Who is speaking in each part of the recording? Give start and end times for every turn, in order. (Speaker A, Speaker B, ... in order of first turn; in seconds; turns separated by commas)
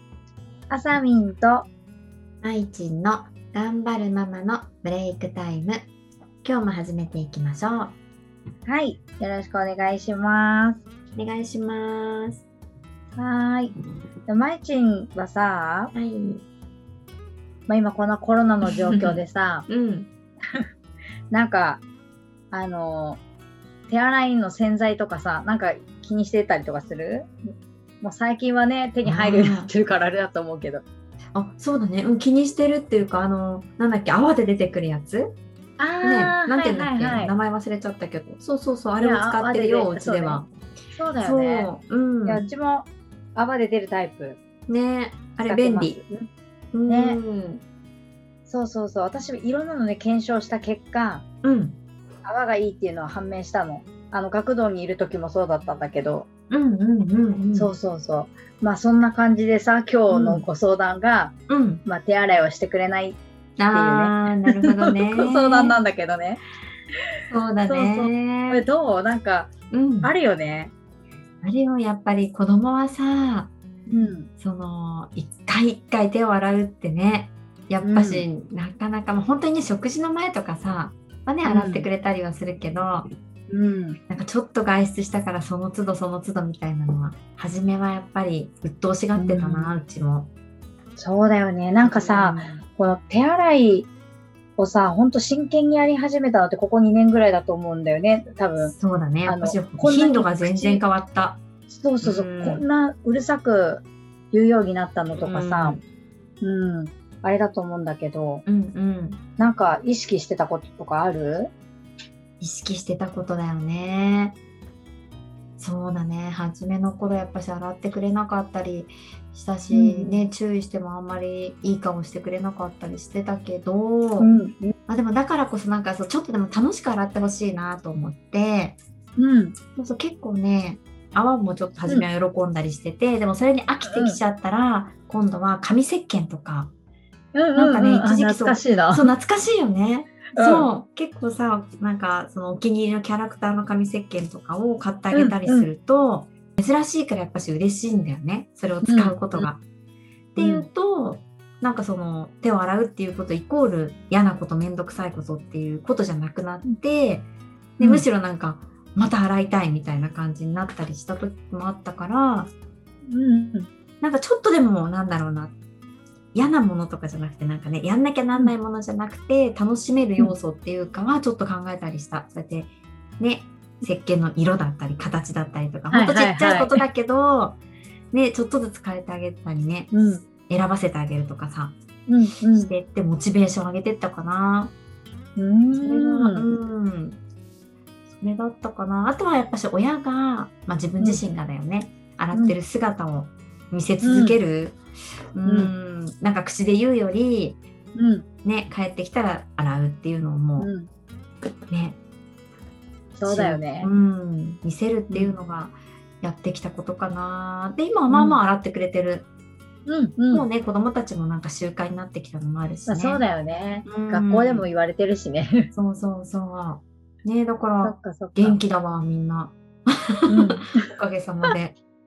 Speaker A: 0.7-1.7, Speaker B: 2.4-5.9, Speaker B: 6.4-8.0, Speaker A: 8.7-10.8, Speaker B: 11.1-12.4, Speaker A: 13.2-13.7, Speaker A: 14.3-15.9, Speaker B: 15.9-16.4, Speaker A: 17.7-19.7, Speaker B: 18.6-20.1, Speaker A: 21.3-21.8, Speaker A: 22.5-23.2, Speaker A: 23.9-27.3, Speaker A: 28.0-30.8, Speaker B: 29.0-29.7, Speaker B: 31.3-35.3, Speaker A: 35.8-37.3, Speaker B: 36.0-40.5, Speaker A: 39.0-40.4, Speaker A: 40.9-41.7, Speaker B: 41.2-42.5, Speaker A: 42.2-44.4, Speaker B: 44.7-46.0, Speaker A: 45.4-46.3, Speaker B: 46.7-47.6, Speaker A: 46.9-47.2, Speaker A: 48.5-51.2, Speaker B: 51.4-51.8, Speaker A: 52.2-56.3, Speaker B: 56.5-57.7, Speaker A: 57.5-63.2, Speaker B: 60.1-60.4, Speaker B: 61.5-61.8, Speaker B: 63.6-65.7, Speaker A: 63.7-64.2, Speaker A: 64.9-66.4, Speaker B: 67.3-68.6, Speaker A: 67.7-69.5, Speaker B: 69.7-70.1, Speaker A: 70.0-70.7, Speaker B: 71.4-73.5, Speaker A: 73.9-74.3, Speaker B: 74.4-83.1, Speaker A: 77.8-78.2, Speaker A: 81.4-81.8, Speaker A: 83.5-84.0, Speaker B: 84.1-90.3, Speaker A: 89.2-89.8, Speaker A: 91.0-93.9, Speaker B: 91.8-92.7, Speaker A: 94.6-100.8, Speaker B: 98.6-101.4, Speaker A: 101.7-105.8, Speaker B: 102.0-102.6, Speaker B: 105.2-105.8, Speaker A: 106.4-108.4, Speaker B: 108.5-109.2, Speaker A: 109.4-111.5, Speaker B: 112.4-114.4, Speaker B: 115.6-124.3, Speaker A: 119.7-120.2, Speaker A: 124.2-124.7, Speaker B: 124.9-128.8, Speaker A: 129.2-129.5, Speaker B: 129.8-136.7, Speaker A: 133.8-134.2, Speaker A: 137.3-139.1, Speaker B: 137.5-149.6, Speaker A: 140.3-140.7, Speaker A: 145.1-145.7, Speaker A: 148.8-149.5, Speaker B: 150.3-162.5, Speaker A: 150.4-150.7, Speaker A: 157.8-158.0, Speaker A: 163.1-163.7, Speaker B: 164.0-165.5, Speaker B: 166.3-177.6, Speaker A: 175.9-176.8, Speaker B: 178.1-179.9, Speaker A: 179.9-180.2, Speaker B: 180.5-181.7, Speaker A: 182.1-182.7, Speaker B: 182.6-184.7, Speaker A: 185.3-186.5, Speaker B: 185.8-187.2, Speaker B: 188.1-194.8, Speaker A: 194.0-194.4, Speaker B: 195.3-197.6, Speaker A: 195.4-195.7, Speaker A: 197.9-198.2, Speaker B: 198.4-200.7, Speaker A: 200.6-200.9, Speaker B: 201.7-202.0, Speaker A: 203.2-203.9, Speaker B: 203.2-209.3, Speaker A: 205.1-205.3, Speaker A: 208.1-208.4, Speaker A: 209.8-210.5, Speaker B: 210.3-213.2, Speaker A: 212.8-215.7, Speaker B: 213.8-214.7, Speaker B: 215.7-221.8, Speaker A: 217.8-218.6, Speaker A: 220.3-220.9